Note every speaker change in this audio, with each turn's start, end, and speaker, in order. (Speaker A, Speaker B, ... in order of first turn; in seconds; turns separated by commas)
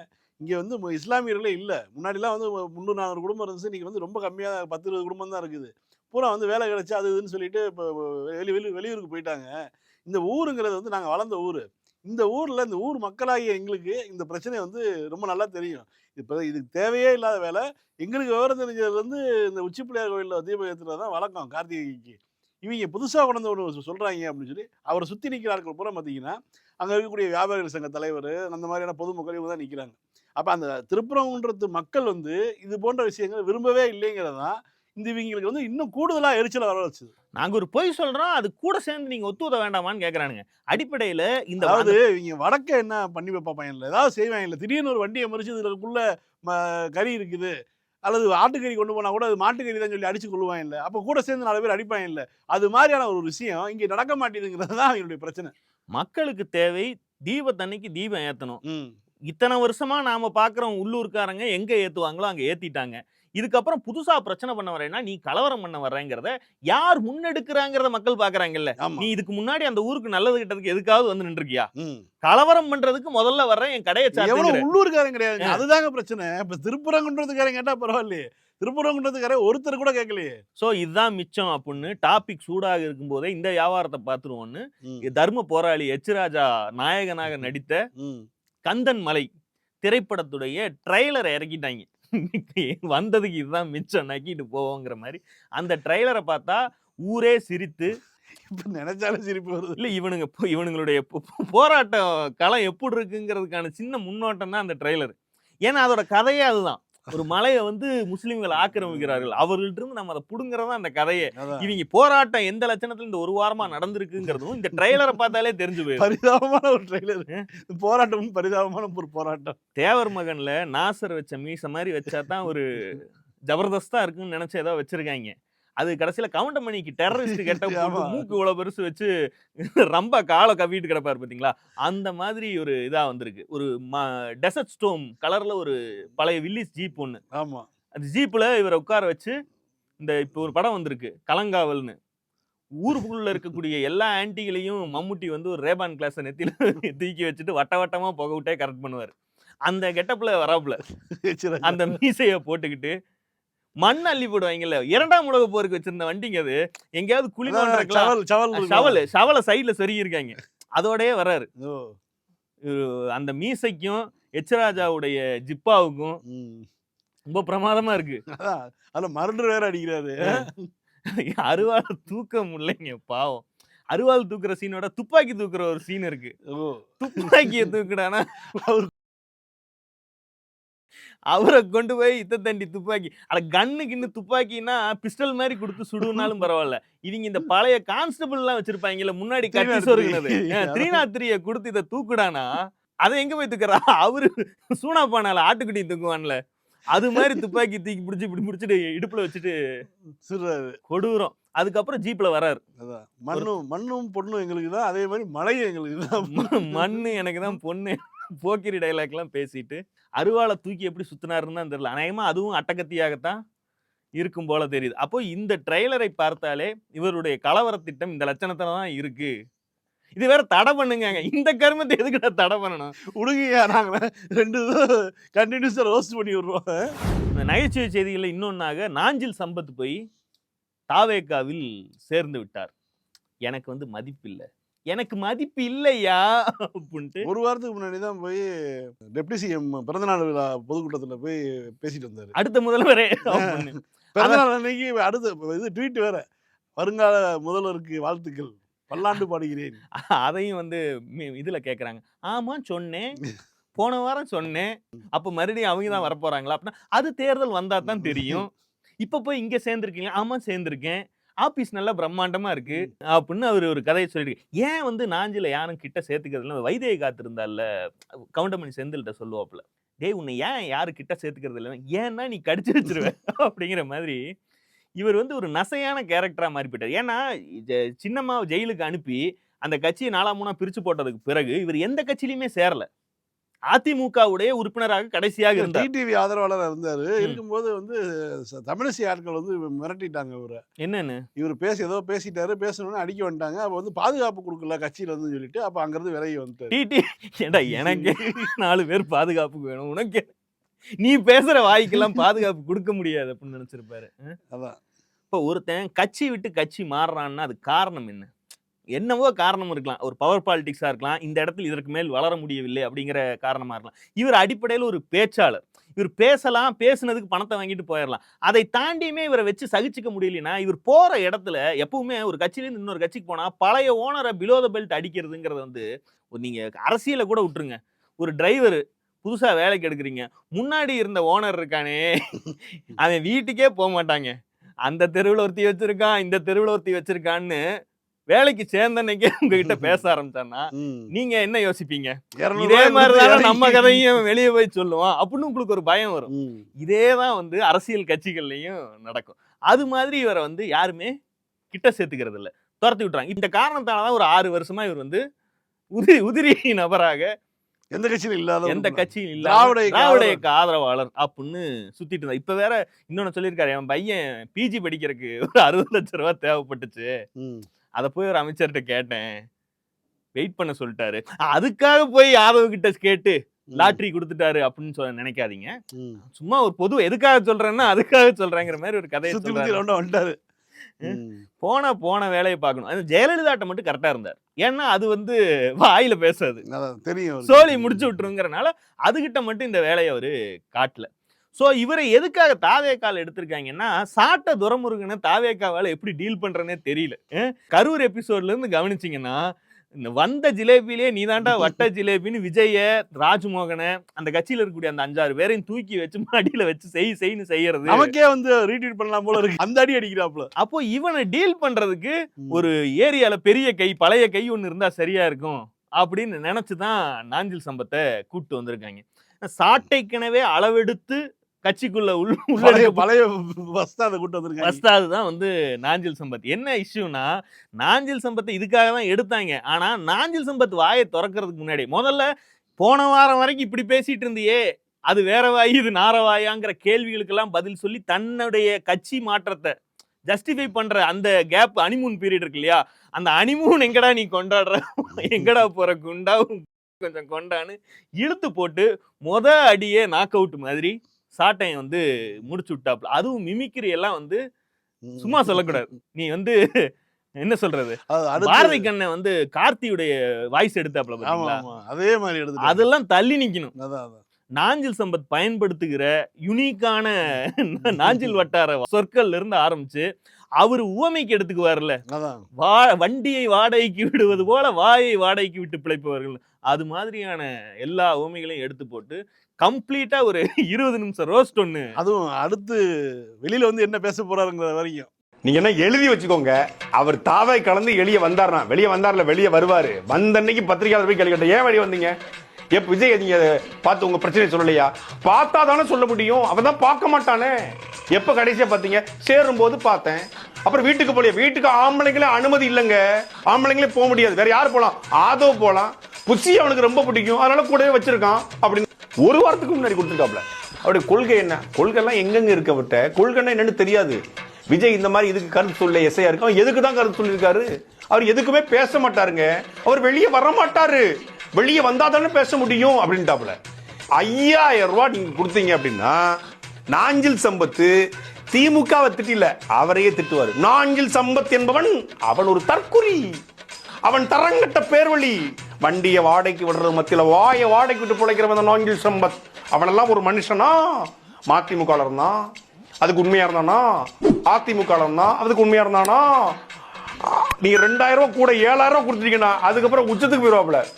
Speaker A: 0.4-9.5, Speaker A: 10.1-37.1, Speaker B: 37.4-42.0, Speaker A: 41.6-47.5, Speaker A: 48.0-55.5, Speaker B: 55.9-58.6, Speaker A: 58.7-58.9, Speaker B: 59.3-71.7, Speaker A: 68.8-69.1, Speaker A: 71.8-72.0, Speaker B: 72.2-74.7, Speaker A: 74.2-80.4, Speaker B: 80.6-87.8, Speaker A: 88.0-88.3, Speaker B: 88.7-89.3, Speaker B: 89.8-98.0, Speaker A: 98.4-99.8, Speaker B: 99.8-105.1, Speaker B: 105.7-116.1, Speaker A: 108.7-109.3, Speaker A: 111.3-111.8, Speaker A: 116.0-119.6, Speaker B: 119.8-129.1, Speaker A: 127.1-128.3, Speaker B: 129.7-137.2, Speaker A: 137.3-137.7, Speaker B: 138.0-139.3, Speaker B: 140.0-141.9, Speaker B: 142.8-149.1, Speaker B: 149.7-150.8, Speaker A: 151.1-152.0, Speaker B: 151.6-152.9, Speaker B: 153.8-161.5, Speaker A: 157.5-159.0, Speaker A: 161.6-161.9, Speaker B: 162.6-166.2, Speaker A: 166.2-166.7, Speaker B: 167.3-168.2, Speaker A: 168.3-170.7, Speaker B: 171.1-176.3, Speaker A: 176.5-177.7, Speaker B: 177.0-178.4, Speaker A: 178.5-178.9, Speaker B: 181.3-199.5, Speaker A: 189.5-191.0, Speaker A: 197.1-197.4, Speaker A: 200.2-200.8, Speaker B: 200.9-202.6, Speaker A: 202.8-207.0, Speaker B: 206.2-213.4, Speaker B: 214.2-219.3, Speaker B: 220.2-222.9, Speaker A: 223.2-226.9, Speaker B: 227.3-230.0, Speaker B: 230.9-232.7, Speaker B: 233.5-237.3, Speaker A: 237.2-238.5, Speaker A: 239.1-242.3, Speaker B: 242.4-244.4, Speaker A: 243.3-246.2, Speaker A: 246.8-249.8, Speaker B: 250.0-253.2, Speaker B: 253.8-258.5, Speaker A: 257.8-258.4, Speaker B: 259.0-267.6, Speaker B: 268.4-274.2, Speaker B: 275.0-282.9, Speaker B: 283.7-285.9, Speaker A: 285.6-290.6, Speaker B: 290.8-291.2, Speaker A: 291.4-296.7, Speaker B: 296.7-300.3, Speaker A: 297.7-298.4, Speaker B: 301.0-304.4, Speaker A: 304.5-304.8, Speaker B: 305.3-308.3, Speaker B: 308.9-337.6, Speaker B: 338.3-351.1, Speaker A: 339.6-340.0, Speaker A: 340.7-341.1, Speaker A: 342.4-344.1, Speaker A: 346.3-346.6, Speaker B: 351.7-355.2, Speaker B: 355.9-357.3, Speaker A: 357.9-360.4, Speaker B: 358.6-367.1, Speaker A: 367.4-367.6, Speaker B: 368.0-369.3, Speaker B: 370.4-375.8, Speaker A: 373.7-374.0, Speaker A: 375.9-376.2, Speaker B: 376.3-379.8, Speaker A: 379.3-380.4, Speaker A: 381.0-381.4, Speaker B: 381.0-386.6, Speaker A: 386.7-388.2, Speaker B: 387.4-399.4, Speaker B: 400.0-408.1, Speaker A: 401.4-401.8, Speaker A: 407.9-410.5, Speaker B: 410.6-423.0, Speaker A: 422.6-424.8, Speaker B: 424.6-427.3, Speaker B: 427.8-432.2, Speaker B: 432.8-434.6, Speaker B: 435.1-439.7, Speaker B: 440.3-454.4, Speaker A: 455.0-455.8, Speaker B: 455.2-456.6, Speaker B: 457.4-461.6, Speaker A: 458.1-458.9, Speaker A: 461.2-462.8, Speaker B: 462.6-463.7, Speaker A: 463.8-464.2, Speaker B: 464.6-470.0, Speaker A: 467.8-468.3, Speaker B: 470.6-472.0, Speaker A: 472.1-472.4, Speaker B: 472.6-481.9, Speaker A: 482.0-482.8, Speaker A: 483.4-485.1, Speaker C: 485.4-492.1, Speaker C: 492.7-497.6, Speaker C: 498.1-514.2, Speaker C: 514.7-523.5, Speaker C: 524.2-526.3, Speaker C: 526.9-527.9, Speaker C: 528.5-533.4, Speaker C: 534.0-542.4, Speaker C: 543.0-546.5, Speaker C: 547.2-550.8